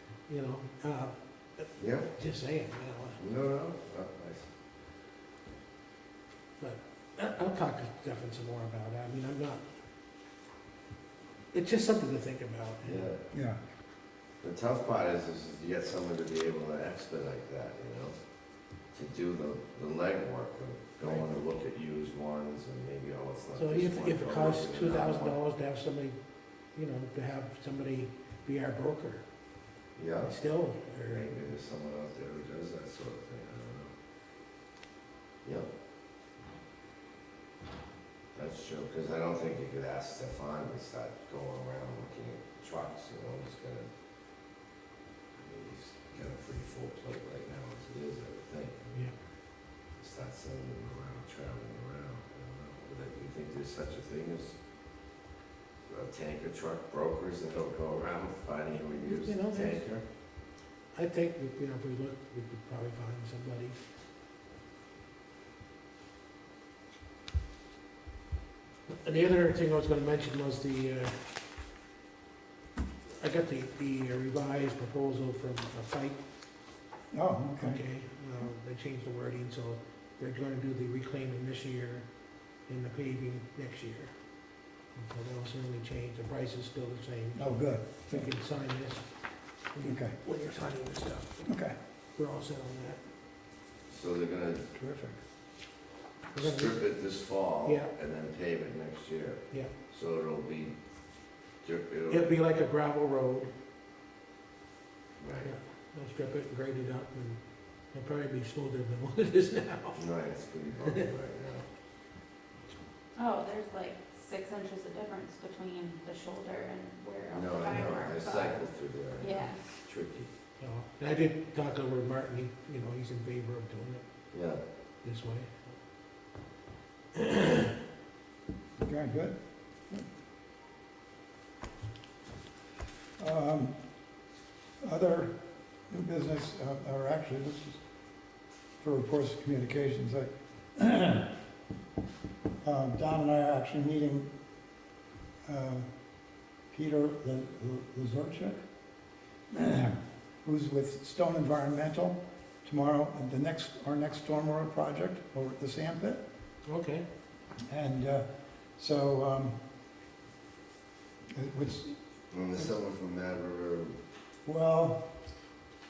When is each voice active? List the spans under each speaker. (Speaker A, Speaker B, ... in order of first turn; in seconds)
Speaker A: 0.3-3.2, 6.6-9.7, 11.5-13.1, 21.0-21.3, 23.6-26.2, 26.8-29.2, 30.2-31.3, 59.0-59.9, 60.9-63.8, 68.9-71.2, 73.1-76.2, 77.6-82.1, 82.7-84.1, 84.9-89.1, 89.7-91.5, 92.2-93.0, 96.3-96.8, 97.7-97.9, 102.1-103.5, 105.4-107.4, 107.9-110.0, 120.6-124.0, 125.0-125.8, 127.2-127.8, 156.7-157.1
Speaker B: 1.8-2.1, 3.2-4.5, 12.8-13.2, 14.4-18.2, 18.9-25.4, 30.0-30.3, 31.1-33.9, 35.4-35.7, 38.3-43.9, 45.4-49.1, 50.0-54.6, 55.9-60.0, 93.9-94.7, 96.4-100.8, 101.6-102.3, 105.2-105.5, 110.0-111.7, 117.3-120.3, 124.3-124.6, 162.3-163.9
Speaker C: 13.3-13.6, 77.1-77.8, 87.4-88.3, 89.8-90.2, 91.5-91.8, 94.8-95.2, 128.8-129.4, 133.2-133.8, 134.8-135.3, 135.9-137.8, 138.8-141.4, 142.6-144.3, 145.5-145.9, 146.7-148.6, 149.5-156.2, 157.7-158.2, 158.8-159.6, 161.3-162.0, 164.5-165.1
Speaker D: 113.2-118.6, 119.2-119.6